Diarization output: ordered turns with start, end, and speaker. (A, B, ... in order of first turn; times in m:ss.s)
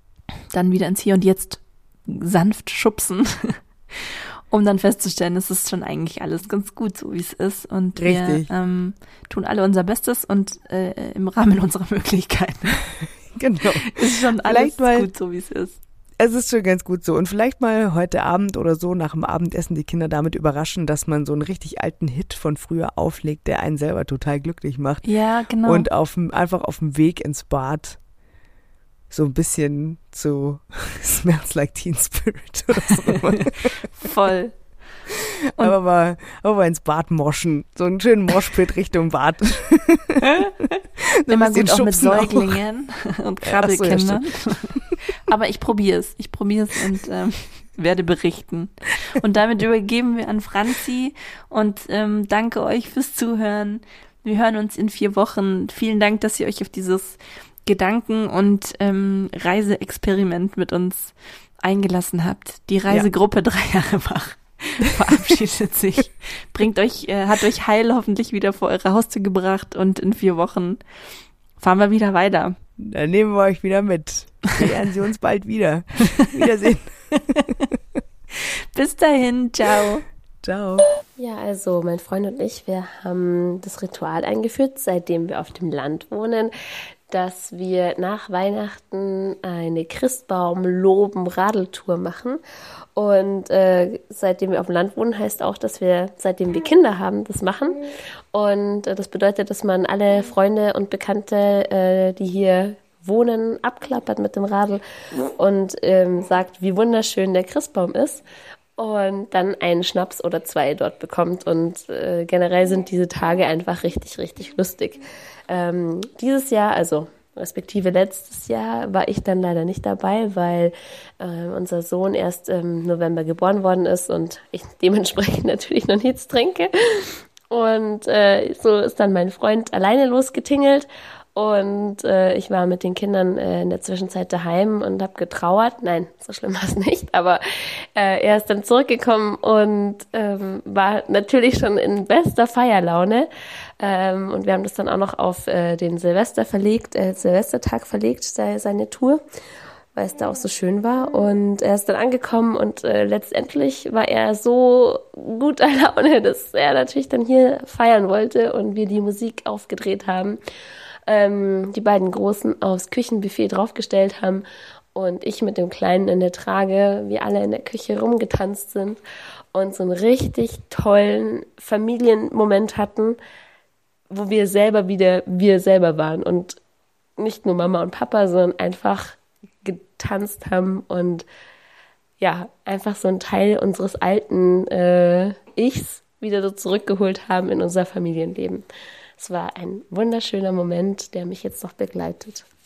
0:00.5-0:12.8 A
0:08.0-0:08.5 B
0:13.3-0:15.1 B
0:13.9-0:15.8 A
0:16.2-0:25.1 B
0:25.0-0:25.9 A
0:25.6-0:28.0 B
0:29.1-0:33.9 B
0:34.0-0:34.6 A
0:35.6-0:40.2 B
0:41.2-0:42.6 B
0:41.3-1:10.8 A
0:43.4-0:44.8 B
1:11.6-1:12.6 A
1:12.8-1:17.8 B
1:18.7-1:20.0 A
1:20.4-1:20.9 B
1:21.2-1:26.5 C
1:27.1-1:32.4 C
1:33.0-1:37.8 C
1:38.3-1:44.8 C
1:45.4-1:48.2 C
1:48.8-2:17.4 C
2:18.0-2:23.3 C
2:23.8-2:29.2 C
2:29.9-2:40.4 C
2:41.1-2:49.0 C
2:49.5-2:53.2 C
2:54.1-2:56.6 C
2:57.2-3:01.3 C
3:02.2-3:08.6 C
3:09.2-3:12.4 C